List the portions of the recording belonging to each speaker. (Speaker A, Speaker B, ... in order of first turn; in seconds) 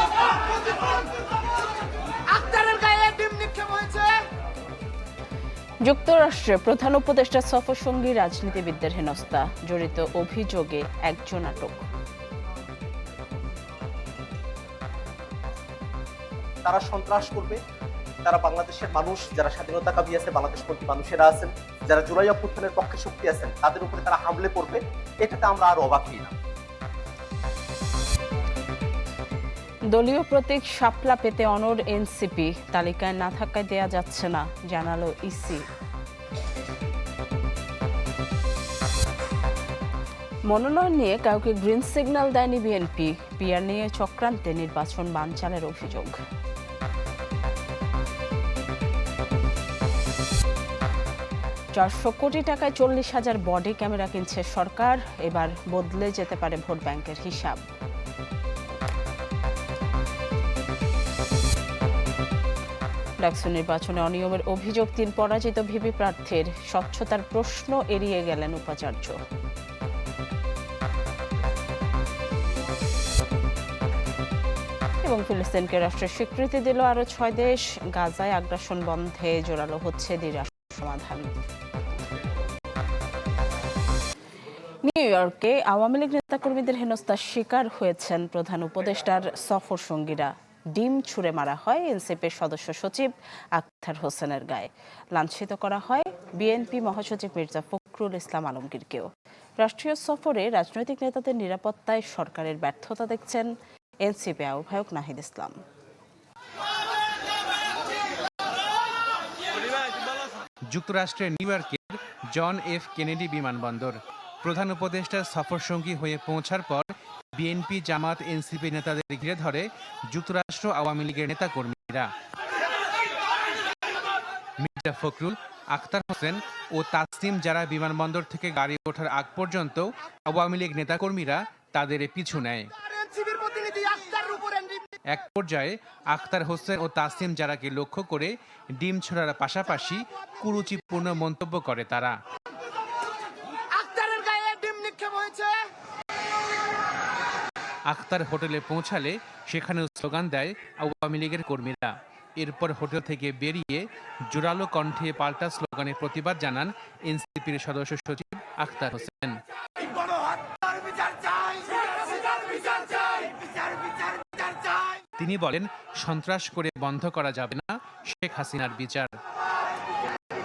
Speaker A: 0.4-1.0, 2.3-4.1, 133.1-134.8, 143.8-145.5, 162.5-163.0
Speaker B: 5.8-11.8, 29.9-35.6, 40.5-46.1, 51.8-57.6, 63.2-69.2, 75.0-81.3, 84.8-99.1, 99.6-103.5, 104.0-105.6
Speaker C: 16.6-17.6, 18.2-26.3
Speaker D: 110.7-122.1, 124.6-132.7, 135.1-142.2, 147.9-159.4, 165.2-169.2